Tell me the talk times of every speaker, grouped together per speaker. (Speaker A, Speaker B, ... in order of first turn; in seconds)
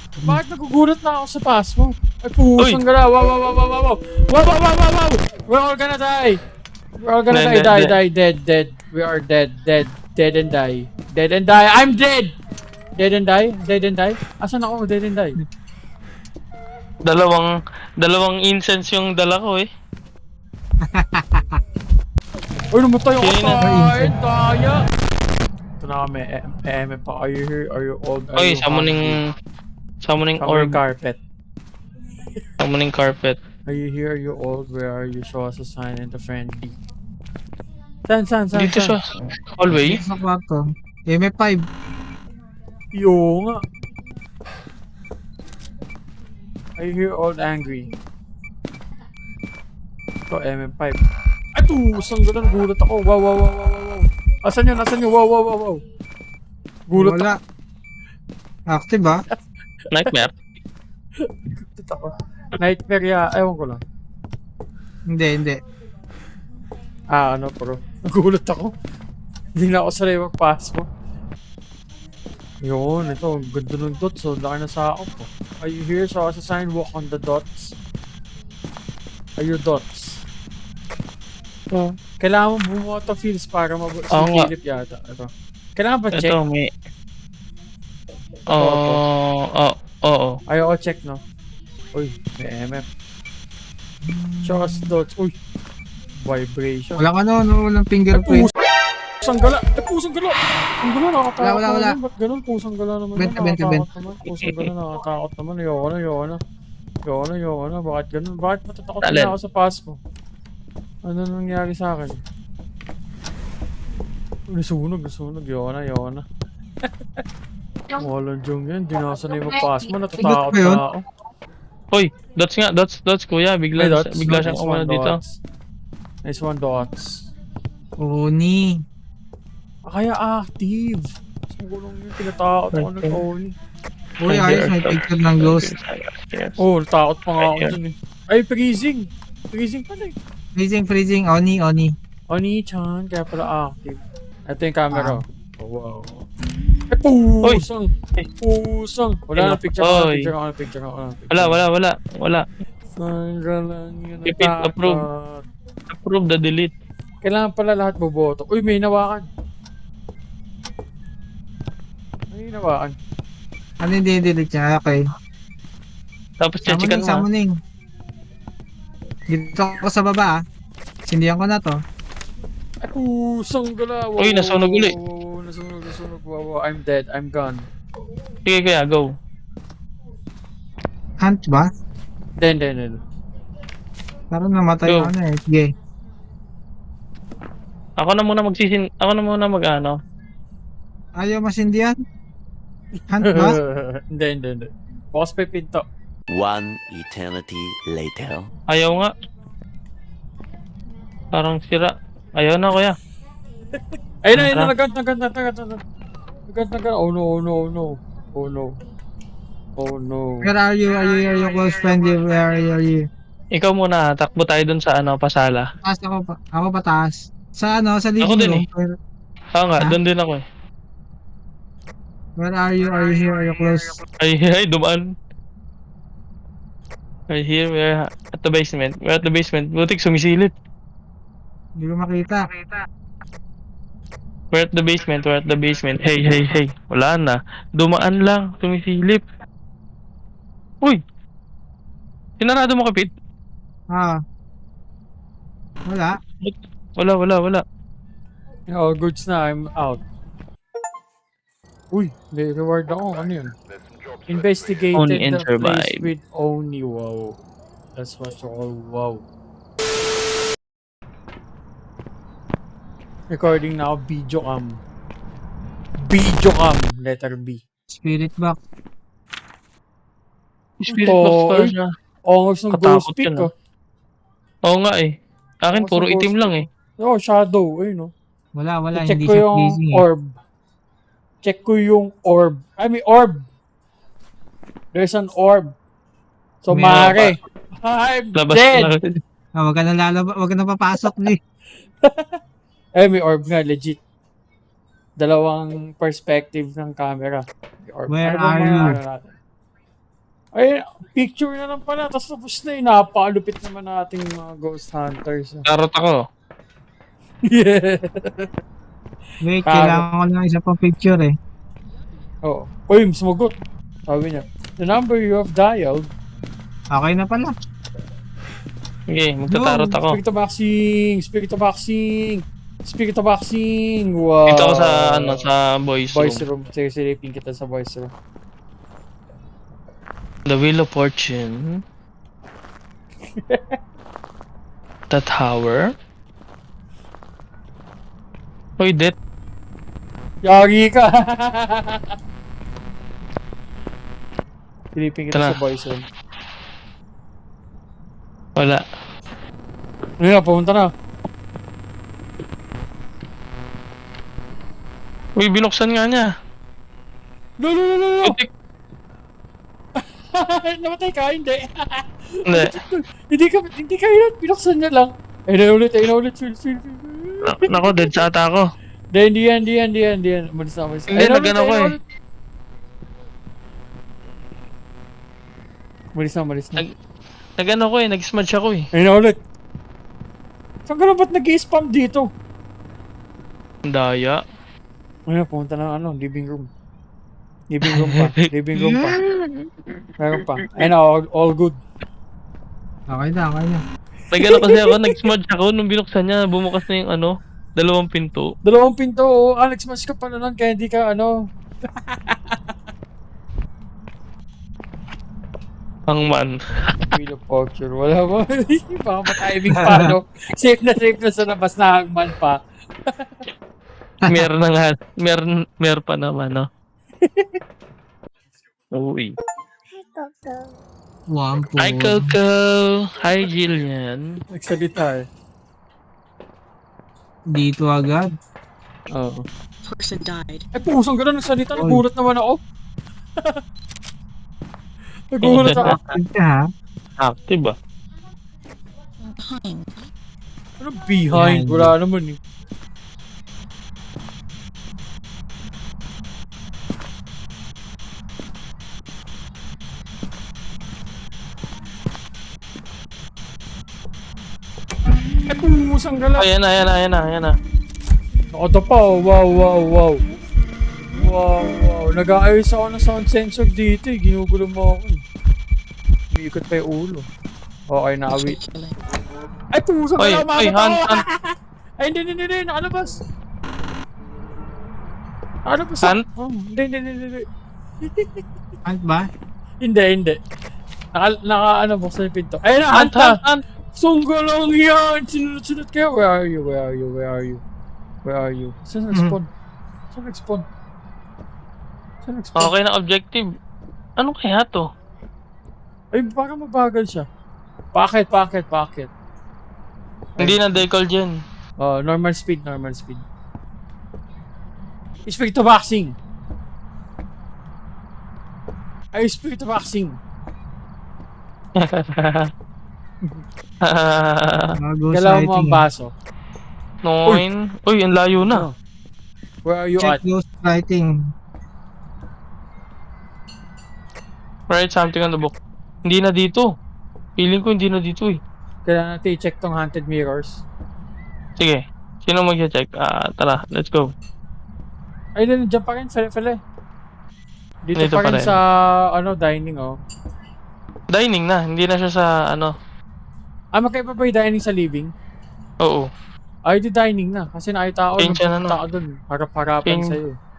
Speaker A: 0.2-6.4, 7.0-12.3, 12.9-15.4, 22.7-24.8, 25.8-29.2, 30.4-31.2, 33.7-36.8, 38.0-39.0, 42.9-43.6, 46.8-47.9, 50.3-51.0, 51.5-55.8, 56.9-57.3, 61.2-63.8, 67.1-68.7, 69.5-70.9, 72.6-77.7, 79.4-80.2, 82.2-86.3, 88.5-89.0, 90.5-91.2, 91.9-92.8, 94.4-95.3, 96.2-97.0, 99.2-106.4, 107.0-110.0, 111.0-112.2, 114.5-116.2, 117.9-121.0, 123.8-125.4, 126.2-127.3, 129.8-133.5, 136.6-140.1, 142.3-146.2, 146.9-151.6, 152.9-155.4, 157.2-159.3, 162.3-162.9, 172.8-177.6, 182.4-183.0, 193.2-195.8, 204.2-205.8, 206.5-208.7, 209.8-210.5, 248.7-250.0, 251.9-253.5, 254.3-257.4, 258.0-259.2, 263.3-264.8, 266.0-267.6, 270.9-271.7, 272.3-273.5, 275.7-278.1, 278.9-280.3, 281.4-283.4, 284.9-285.7, 286.6-288.9, 292.0-292.4, 293.0-294.0, 295.2-299.4, 300.5-305.6, 307.4-308.5, 309.6-310.1, 312.4-313.5, 314.1-316.1, 320.1-325.5, 326.1-328.1, 333.3-333.8, 340.4-342.1, 344.9-346.0, 350.2-350.9, 357.6-358.4, 360.0-368.2, 369.1-372.0, 376.1-376.8, 378.9-379.4, 380.9-382.3, 385.3-386.7, 387.7-389.1, 390.2-391.8, 394.4-395.1, 398.6-401.3, 401.9-402.6, 407.1-413.3, 417.2-417.6, 424.5-425.2, 429.1-429.4, 430.7-432.6, 435.3-435.9, 440.8-442.4, 455.5-456.5, 458.5-460.2, 461.1-465.2, 466.3-467.3, 467.9-468.6, 469.7-473.2, 475.6-477.4, 478.1-478.4, 479.8-480.4, 481.1-483.4, 483.9-487.6, 488.2-489.5, 490.1-490.6, 492.2-492.7, 496.1-497.3, 497.9-499.1, 501.8-503.2, 505.2-506.1, 509.1-510.2, 515.1-516.1, 518.4-518.7, 519.6-520.2, 528.9-530.6, 535.4-536.6, 537.9-540.0, 543.7-545.1, 546.7-550.4
Speaker B: 7.3-7.9, 17.0-17.5, 18.0-19.7, 23.2-23.7, 28.4-29.1, 30.0-30.8, 32.6-33.4, 38.5-40.0, 59.9-60.3, 84.1-84.5, 86.1-86.7, 88.5-90.3, 104.4-104.7, 109.0-109.3, 121.9-125.2, 132.7-133.1, 134.2-136.6, 137.4-137.7, 149.3-150.3, 151.3-152.4, 154.2-155.0, 155.9-156.7, 166.4-167.3, 174.2-174.9, 178.4-179.1, 184.9-185.1, 188.0-190.0, 198.7-199.1, 201.3-203.0, 204.3-204.7, 213.5-215.6, 218.2-218.6, 219.5-220.4, 224.2-225.0, 227.3-230.5, 234.5-239.2, 242.4-243.1, 246.4-247.6, 254.9-256.1, 270.8-271.9, 272.7-273.5, 274.7-275.1, 275.6-276.6, 288.4-289.0, 305.7-306.2, 319.1-320.2, 324.5-326.4, 330.5-331.8, 335.1-335.9, 338.8-339.1, 345.3-345.6, 348.6-348.8, 355.4-356.3, 367.4-368.6, 371.1-371.9, 377.6-378.9, 383.9-384.4, 389.0-389.7, 394.3-398.5, 406.1-406.9, 414.3-416.6, 418.9-419.3, 421.8-424.2, 435.4-436.0, 437.2-437.8, 456.4-457.6, 470.2-471.2, 482.9-483.6, 492.6-493.4, 494.2-494.9, 500.4-501.4, 511.8-512.5, 513.8-514.7, 517.0-518.7, 524.7-526.7, 527.4-528.4, 531.6-534.1, 538.0-538.6, 541.1-542.7, 545.8-546.1, 548.2-548.8, 549.8-550.2
Speaker C: 20.8-21.6, 23.6-24.1, 39.7-41.6, 56.9-57.4, 58.7-59.2, 65.1-65.6, 94.0-94.9, 97.0-98.5, 101.4-102.0, 103.2-103.8, 120.2-120.8, 128.0-128.8, 134.2-135.7, 140.5-141.9, 144.9-145.2, 163.8-165.0, 166.7-167.5, 169.3-170.4, 171.1-171.8, 181.2-181.7, 184.3-185.7, 191.1-191.9, 193.1-193.6, 210.4-213.0, 215.8-218.9, 222.4-224.0, 231.8-232.5, 243.9-244.2, 245.9-246.2, 267.9-268.6, 278.5-280.0, 286.7-287.2, 289.6-291.4, 298.1-299.0, 309.4-311.3, 316.9-317.5, 319.5-320.0, 393.1-393.8, 421.3-422.3, 427.5-428.3, 431.8-432.0, 435.8-436.6, 441.3-441.9, 478.8-479.3, 514.7-515.8, 520.0-521.3
Speaker D: 196.3-198.5
Speaker E: 429.8-430.7, 439.3-440.0, 468.4-468.9